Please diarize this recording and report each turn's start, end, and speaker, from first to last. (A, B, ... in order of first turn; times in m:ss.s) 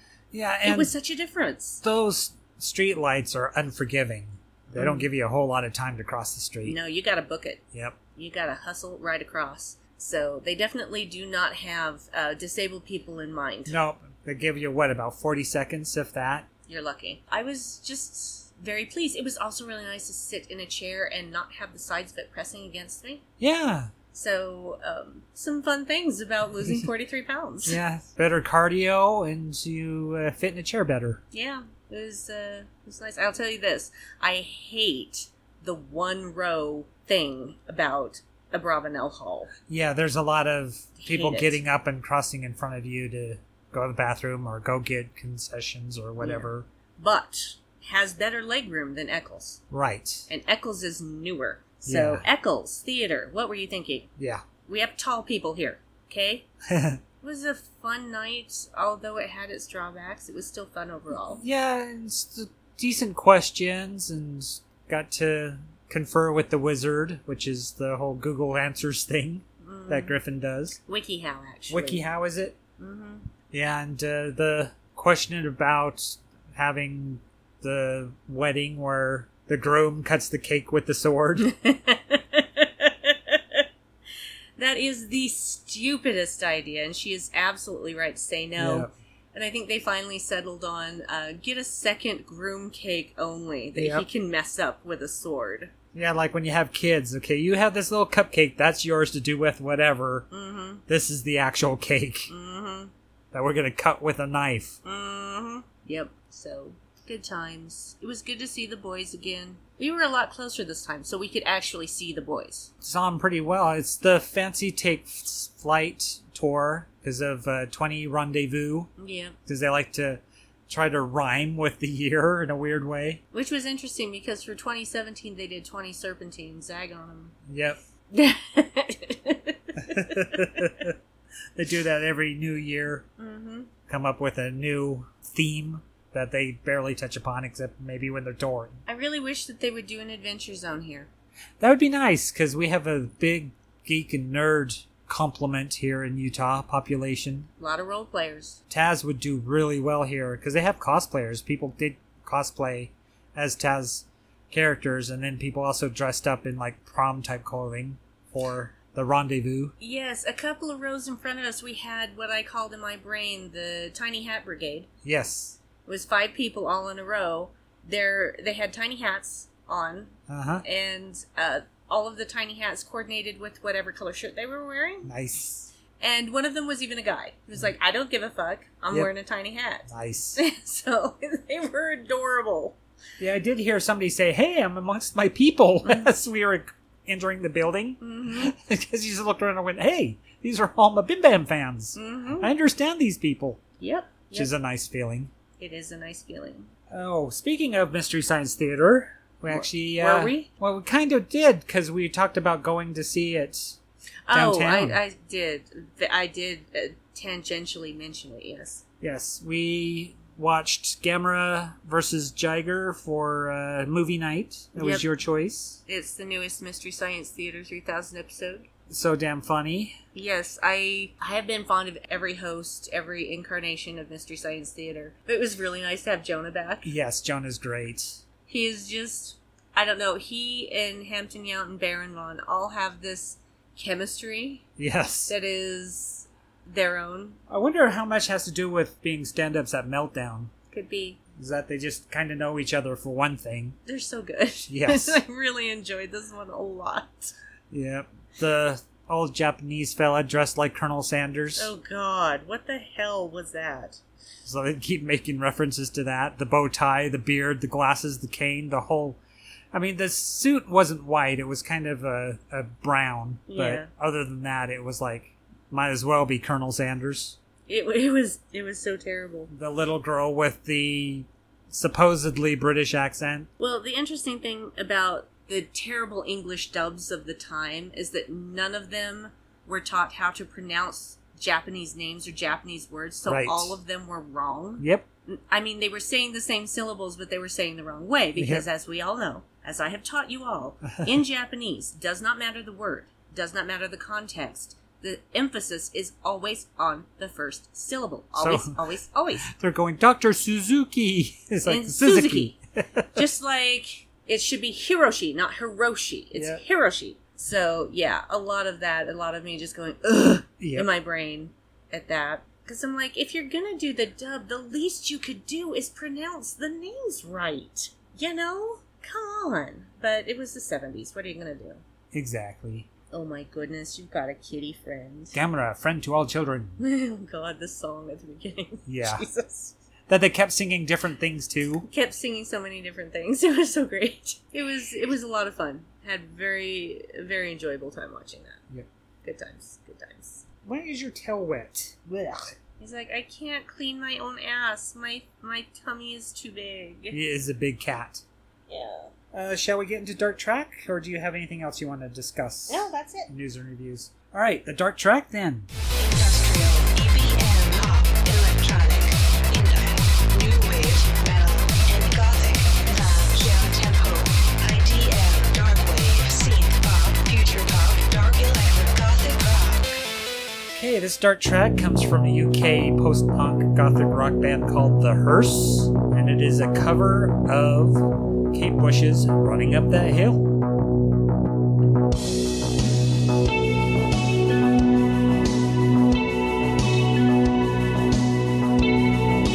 0:00.3-0:00.9 A
0:00.6-0:01.8 B
0:01.8-0:06.8 A
0:04.8-0:05.1 B
0:06.6-0:07.6 B
0:08.2-0:13.8 B
0:13.7-0:16.4 A
0:16.7-0:23.2 B
0:23.4-0:23.9 A
0:24.1-0:27.8 B
0:27.6-0:31.2 A
0:31.3-0:39.5 B
0:39.7-0:46.6 A
0:41.0-0:41.6 B
0:46.2-0:49.6 B
0:49.7-0:50.3 A
0:50.3-0:54.1 B
0:51.8-0:52.2 A
0:54.2-0:54.4 A
0:54.6-0:56.5 B
0:56.7-0:57.0 A
0:57.2-1:01.4 B
1:01.3-1:10.8 A
1:09.6-1:10.2 B
1:10.8-1:12.1 B
1:11.7-1:12.6 A
1:12.8-1:13.3 B
1:13.5-1:21.5 A
1:21.4-1:23.6 B
1:24.6-1:35.7 B
1:28.6-1:28.9 A
1:33.7-1:34.0 A
1:35.9-1:40.2 A
1:40.3-1:40.8 B
1:40.9-1:42.3 A
1:42.3-1:42.9 B
1:43.3-1:44.8 A
1:44.8-1:52.7 B
1:52.8-1:58.9 A
1:59.0-1:59.4 B
1:59.4-2:03.2 A
2:03.3-2:07.3 B
2:07.5-2:07.8 A
2:08.1-2:10.7 B
2:09.8-2:10.9 A
2:11.6-2:13.0 A
2:13.2-2:13.7 B
2:13.9-2:18.8 A
2:18.8-2:21.1 B
2:21.6-2:27.5 A
2:27.6-2:28.6 B
2:28.7-2:39.7 A
2:39.8-2:44.9 B
2:45.0-2:45.6 A
2:45.8-2:55.1 B
2:50.3-2:50.6 A
2:55.0-2:55.7 A
2:56.0-3:02.8 B
2:59.9-3:00.4 A
3:03.2-3:13.6 A
3:05.8-3:06.1 B
3:08.0-3:08.5 B
3:11.9-3:12.5 B
3:13.8-3:14.5 B
3:14.3-3:15.3 A
3:15.6-3:16.7 B
3:16.9-3:23.8 A
3:19.5-3:20.5 B
3:24.3-3:28.8 B
3:24.3-3:25.0 A
3:29.0-3:35.8 A
3:34.8-3:35.0 B
3:35.9-3:38.7 B
3:38.9-3:40.0 A
3:40.1-3:46.9 B
3:46.8-3:48.2 A
3:48.5-3:54.6 B
3:54.8-3:55.3 A
3:55.3-3:57.4 B
3:57.5-4:00.5 A
4:00.7-4:01.2 B
4:01.4-4:03.8 A
4:03.8-4:07.3 B
4:04.7-4:05.2 A
4:07.7-4:11.7 A
4:11.6-4:14.0 B
4:14.4-4:19.2 A
4:19.7-4:27.4 A
4:23.5-4:23.9 B
4:27.7-4:29.5 B
4:29.5-4:33.5 A
4:33.6-4:59.5 B
4:43.3-4:43.8 A
4:44.8-4:45.0 A
4:48.4-4:48.6 A
4:58.4-4:58.8 A
4:59.5-5:03.2 A
5:01.6-5:02.6 B
5:03.1-5:21.8 B
5:06.3-5:06.6 A
5:10.6-5:10.9 A
5:22.1-5:22.9 A
5:23.1-5:25.4 B
5:25.3-5:26.8 A
5:26.8-5:29.7 B
5:28.9-5:29.2 A
5:30.1-5:31.9 A
5:31.8-5:38.6 B
5:39.2-5:40.4 B
5:40.6-5:42.6 A
5:42.8-5:47.2 B
5:47.1-5:48.2 A
5:48.7-5:49.1 B
5:49.3-5:55.7 A
5:52.7-5:53.3 B
5:56.0-6:10.0 C
6:10.7-6:20.4 A